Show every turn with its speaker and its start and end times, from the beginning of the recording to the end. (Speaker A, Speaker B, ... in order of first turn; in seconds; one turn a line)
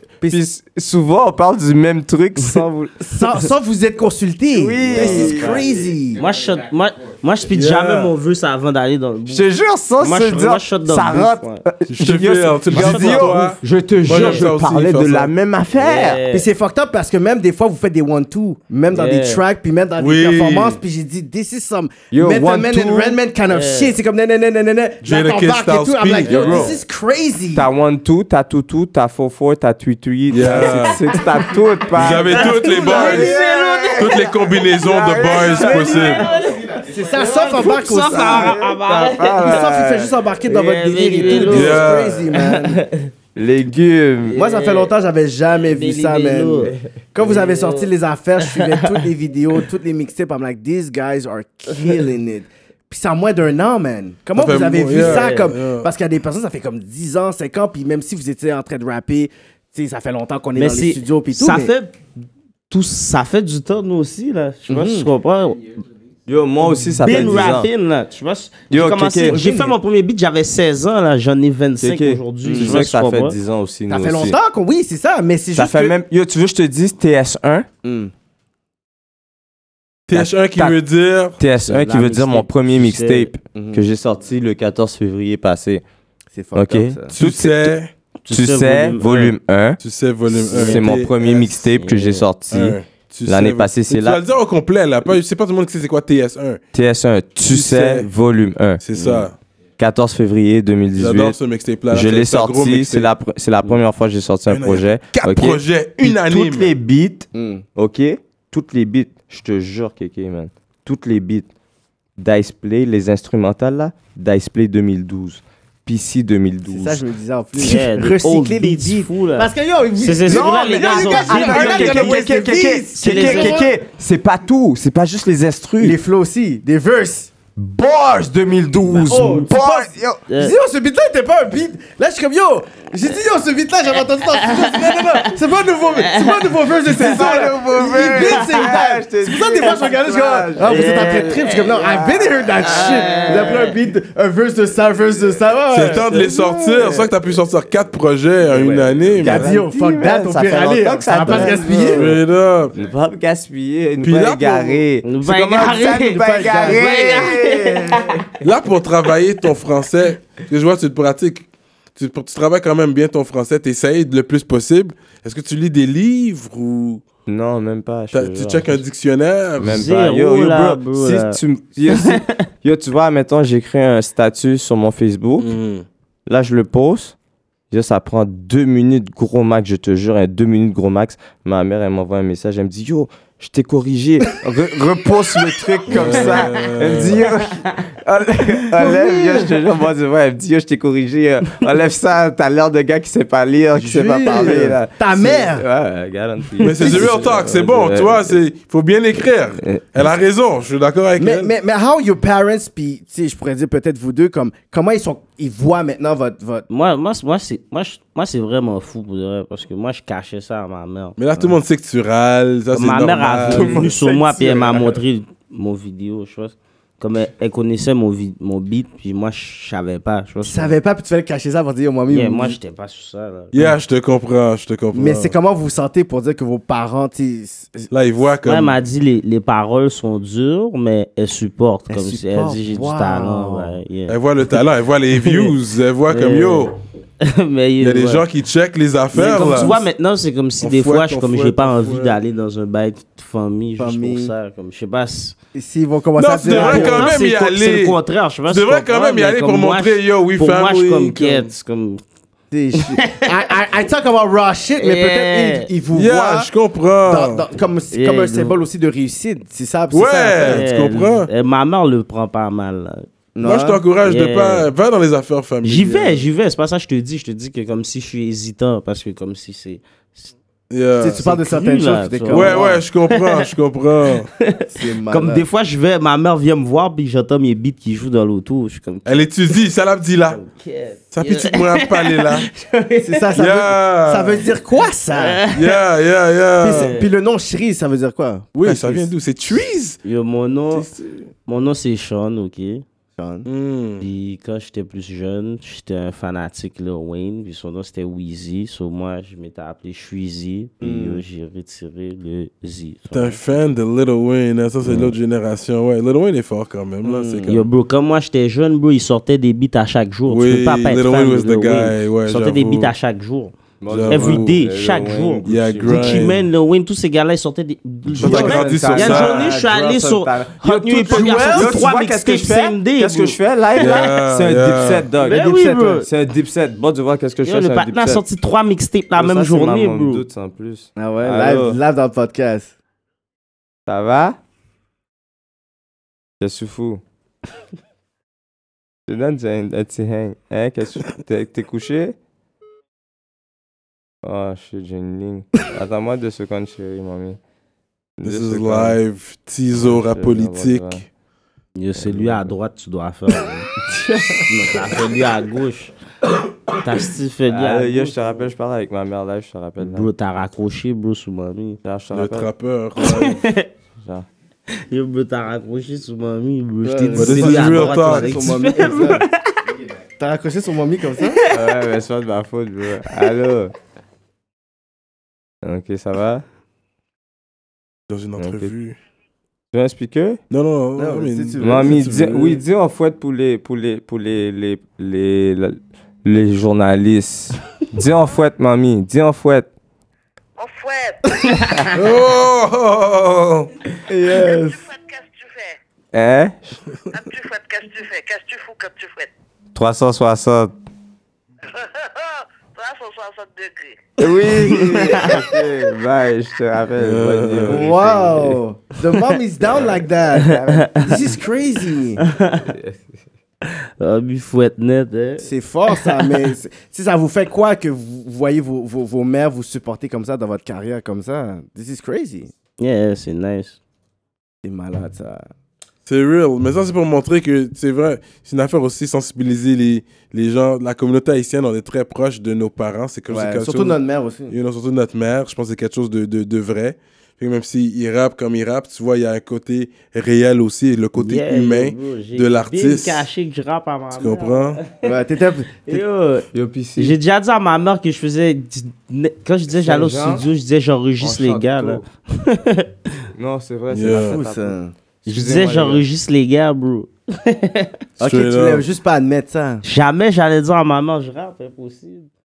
Speaker A: 0.2-3.0
Speaker B: 3.0-6.2
Speaker A: 4.5-5.9
Speaker C: 4.9-9.5
Speaker D: 7.5-8.1
Speaker A: 9.3-16.2
Speaker C: 10.0-11.6
Speaker D: 11.9-15.3
Speaker C: 12.7-13.4
Speaker C: 14.1-14.4
Speaker C: 15.8-16.5
Speaker B: 16.3-27.7
Speaker C: 18.9-19.4
Speaker D: 20.0-20.8
Speaker A: 22.1-23.2
Speaker C: 23.5-24.0
Speaker D: 25.0-26.8
Speaker A: 26.3-26.8
Speaker C: 26.3-26.7
Speaker A: 27.5-40.2
Speaker D: 30.3-31.0
Speaker C: 30.9-31.4
Speaker D: 31.9-33.4
Speaker C: 32.0-34.3
Speaker B: 32.8-33.5
Speaker D: 34.0-36.3
Speaker C: 35.5-39.8
Speaker B: 35.6-38.6
Speaker B: 39.4-42.8
Speaker C: 40.5-43.1
Speaker A: 41.2-41.7
Speaker D: 41.5-42.3
Speaker A: 43.4-44.4
Speaker C: 44.2-44.9
Speaker B: 44.3-61.7
Speaker C: 45.6-49.1
Speaker A: 46.6-46.9
Speaker D: 54.4-55.9
Speaker C: 54.9-55.5
Speaker C: 60.5-62.0
Speaker C: 62.7-65.7
Speaker B: 64.7-65.1
Speaker A: 66.3-67.7
Speaker C: 67.0-73.4
Speaker B: 67.1-67.5
Speaker A: 68.7-69.4
Speaker B: 69.2-69.8
Speaker A: 71.8-74.4
Speaker B: 72.4-72.8
Speaker B: 73.9-75.9
Speaker A: 75.5-77.7
Speaker B: 77.8-78.1
Speaker D: 80.1-81.4
Speaker A: 80.1-80.8
Speaker A: 81.4-85.8
Speaker C: 81.5-83.3
Speaker B: 83.5-83.9
Speaker B: 86.3-87.1
Speaker A: 86.5-87.8
Speaker D: 87.1-87.9
Speaker C: 88.2-89.2
Speaker A: 88.3-89.8
Speaker D: 89.0-91.5
Speaker A: 90.3-94.2
Speaker C: 90.5-90.8
Speaker C: 91.7-92.3
Speaker D: 92.5-96.6
Speaker A: 96.7-99.3
Speaker D: 97.5-98.1
Speaker D: 98.8-99.4
Speaker A: 99.8-101.4
Speaker D: 101.0-103.1
Speaker A: 101.9-111.5
Speaker D: 104.5-106.7
Speaker B: 107.3-107.6
Speaker A: 112.2-117.0
Speaker B: 116.7-123.7
Speaker C: 117.6-122.3
Speaker A: 120.2-126.0
Speaker C: 123.0-123.7
Speaker B: 125.8-127.3
Speaker A: 127.6-130.2
Speaker C: 128.9-129.5
Speaker B: 129.1-146.3
Speaker C: 130.3-130.6
Speaker C: 134.4-135.4
Speaker C: 136.0-137.5
Speaker A: 136.8-143.7
Speaker C: 138.0-138.8
Speaker C: 140.6-143.8
Speaker D: 145.7-149.5
Speaker A: 145.8-147.1
Speaker A: 148.4-152.2
Speaker B: 149.2-152.2
Speaker C: 151.3-151.8
Speaker D: 151.3-152.7
Speaker A: 152.7-158.3
Speaker D: 154.0-154.8
Speaker C: 155.0-158.2
Speaker B: 155.5-157.3
Speaker D: 158.4-167.0
Speaker A: 167.3-168.8
Speaker D: 168.1-169.9
Speaker A: 169.6-175.5
Speaker C: 169.6-172.4
Speaker D: 175.4-175.8
Speaker A: 176.3-177.2
Speaker A: 177.7-198.4
Speaker D: 185.9-187.3
Speaker B: 188.7-189.6
Speaker B: 193.8-195.7
Speaker D: 196.6-201.5
Speaker B: 196.8-197.3
Speaker A: 199.6-199.8
Speaker B: 201.2-206.7
Speaker C: 206.7-211.2
Speaker D: 211.2-213.9
Speaker C: 212.7-220.8
Speaker A: 213.5-214.6
Speaker B: 214.0-214.7
Speaker B: 220.4-222.6
Speaker C: 222.1-223.7
Speaker D: 223.5-225.3
Speaker B: 224.9-227.9
Speaker D: 227.9-228.8
Speaker C: 228.4-234.2
Speaker B: 231.9-233.8
Speaker D: 234.1-236.7
Speaker C: 235.2-235.6
Speaker C: 236.1-238.3
Speaker D: 237.8-239.8
Speaker C: 239.1-245.4
Speaker B: 239.2-239.7
Speaker D: 240.6-242.2
Speaker B: 243.8-244.3
Speaker B: 245.6-247.2
Speaker D: 246.2-251.5
Speaker C: 246.5-252.0
Speaker B: 252.5-256.5
Speaker C: 252.8-253.4
Speaker C: 254.8-255.7
Speaker D: 255.9-257.4
Speaker B: 257.1-260.7
Speaker C: 257.9-258.6
Speaker D: 259.9-261.3
Speaker C: 260.4-263.1
Speaker B: 263.4-263.8
Speaker D: 263.4-266.2
Speaker C: 264.0-264.7
Speaker C: 265.6-270.3
Speaker D: 270.7-271.2
Speaker B: 271.0-272.8
Speaker C: 271.2-273.5
Speaker D: 272.3-274.3
Speaker C: 274.4-279.6
Speaker B: 274.7-275.4
Speaker D: 279.1-280.4
Speaker C: 280.3-283.3
Speaker D: 281.1-282.5
Speaker B: 283.0-285.4
Speaker D: 283.4-284.5
Speaker C: 285.1-285.8
Speaker D: 285.5-286.9
Speaker B: 286.6-289.1
Speaker C: 286.6-287.1
Speaker D: 288.6-290.0
Speaker C: 290.0-290.9
Speaker D: 290.7-291.2
Speaker C: 291.5-292.8
Speaker B: 293.2-293.5
Speaker D: 293.5-294.1
Speaker C: 294.0-303.4
Speaker B: 300.8-301.2
Speaker D: 303.1-307.7
Speaker B: 304.8-305.1
Speaker B: 307.0-307.6
Speaker C: 307.5-313.5
Speaker D: 310.3-312.9
Speaker A: 313.8-316.3
Speaker D: 313.9-314.5
Speaker C: 314.1-324.0
Speaker D: 315.5-316.4
Speaker D: 318.1-319.6
Speaker A: 318.2-328.2
Speaker B: 321.1-321.9
Speaker D: 323.8-325.1
Speaker C: 325.2-326.1
Speaker B: 325.3-326.0
Speaker C: 327.4-330.2
Speaker A: 329.1-331.8
Speaker B: 331.0-332.7
Speaker A: 333.9-334.4
Speaker A: 336.4-337.0
Speaker A: 339.1-342.2
Speaker A: 344.2-347.4
Speaker A: 348.2-349.0
Speaker D: 348.2-351.0
Speaker A: 349.7-351.0
Speaker C: 351.8-353.7
Speaker A: 352.0-352.5
Speaker A: 353.8-355.0
Speaker C: 354.5-355.9
Speaker C: 356.8-358.5
Speaker A: 357.5-360.1
Speaker C: 359.8-361.8
Speaker A: 361.8-362.5
Speaker D: 362.1-363.4
Speaker C: 363.0-363.7
Speaker A: 364.0-364.3
Speaker C: 364.8-369.6
Speaker B: 366.8-369.2
Speaker D: 367.2-368.6
Speaker B: 370.2-371.4
Speaker C: 371.2-371.6
Speaker A: 371.5-373.7
Speaker A: 375.6-376.4
Speaker D: 378.1-379.0
Speaker A: 378.4-378.7
Speaker A: 379.7-380.4
Speaker D: 380.5-382.6
Speaker B: 381.0-382.5
Speaker A: 381.6-389.7
Speaker E: 390.6-392.0
Speaker D: 391.9-393.7
Speaker B: 394.1-394.7
Speaker A: 394.2-394.6
Speaker E: 394.2-395.8
Speaker A: 396.1-396.8
Speaker E: 397.1-399.3
Speaker A: 399.8-400.8
Speaker E: 401.7-404.1
Speaker A: 404.2-408.6
Speaker C: 404.6-405.4
Speaker E: 404.7-405.6
Speaker D: 407.0-407.9
Speaker B: 407.7-412.2
Speaker A: 409.6-410.0
Speaker C: 410.4-411.3
Speaker C: 412.2-412.7
Speaker A: 412.7-413.2
Speaker C: 413.7-416.5
Speaker B: 415.4-422.5
Speaker C: 422.8-423.8
Speaker B: 424.6-425.5
Speaker D: 426.1-434.0
Speaker B: 433.3-434.5
Speaker D: 434.5-443.3
Speaker C: 441.2-445.1
Speaker D: 444.1-444.8
Speaker B: 445.0-445.8
Speaker C: 445.8-452.9
Speaker A: 446.5-447.2
Speaker A: 449.7-450.5
Speaker A: 451.2-452.0
Speaker A: 453.4-456.0
Speaker D: 453.9-454.4
Speaker B: 454.1-454.9
Speaker C: 455.3-458.0
Speaker D: 458.2-458.9
Speaker B: 458.2-459.8
Speaker C: 459.8-462.3